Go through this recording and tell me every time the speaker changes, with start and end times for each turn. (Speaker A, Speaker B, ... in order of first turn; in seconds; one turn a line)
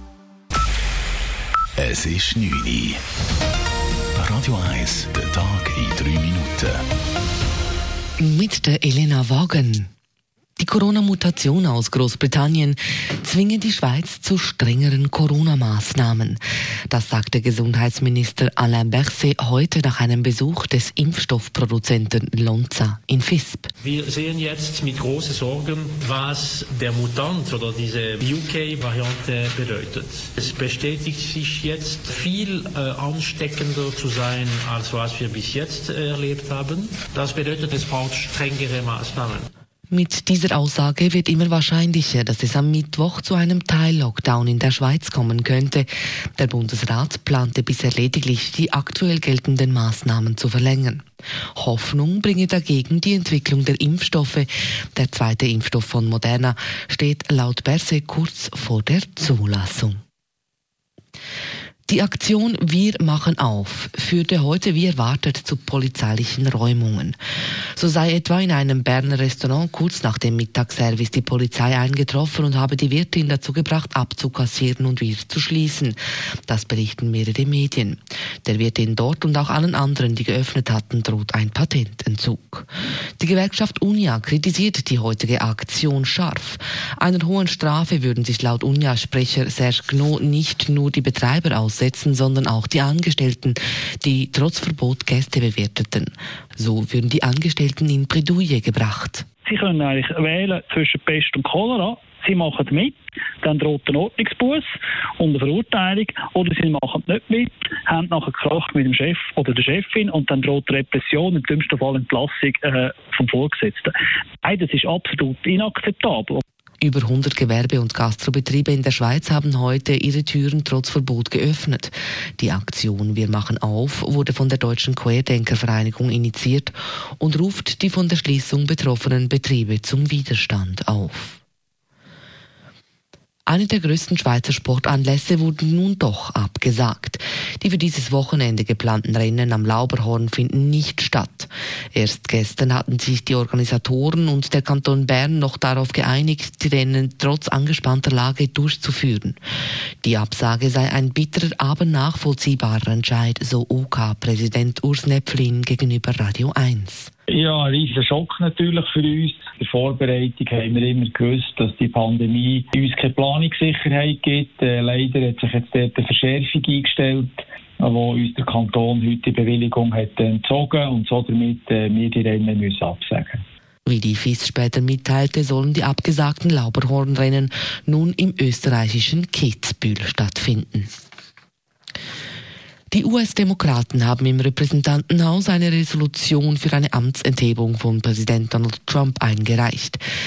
Speaker A: 1.8-3.0
Speaker A: 4.2-6.8
Speaker B: 8.2-9.9
Speaker B: 10.6-23.7
Speaker C: 23.8-39.5
Speaker B: 39.9-51.0
Speaker B: 51.5-60.0
Speaker B: 61.9-67.2
Speaker B: 67.7-99.2
Speaker D: 99.6-102.9
Speaker D: 103.5-104.6
Speaker D: 105.2-107.5
Speaker D: 108.0-113.9
Speaker D: 114.5-116.4
Speaker B: 116.8-131.4
Speaker B: 133.5-149.4
Speaker B: 150.0-157.1
Speaker E: 157.3-173.4
Speaker B: 173.8-180.9
Speaker B: 182.9-190.0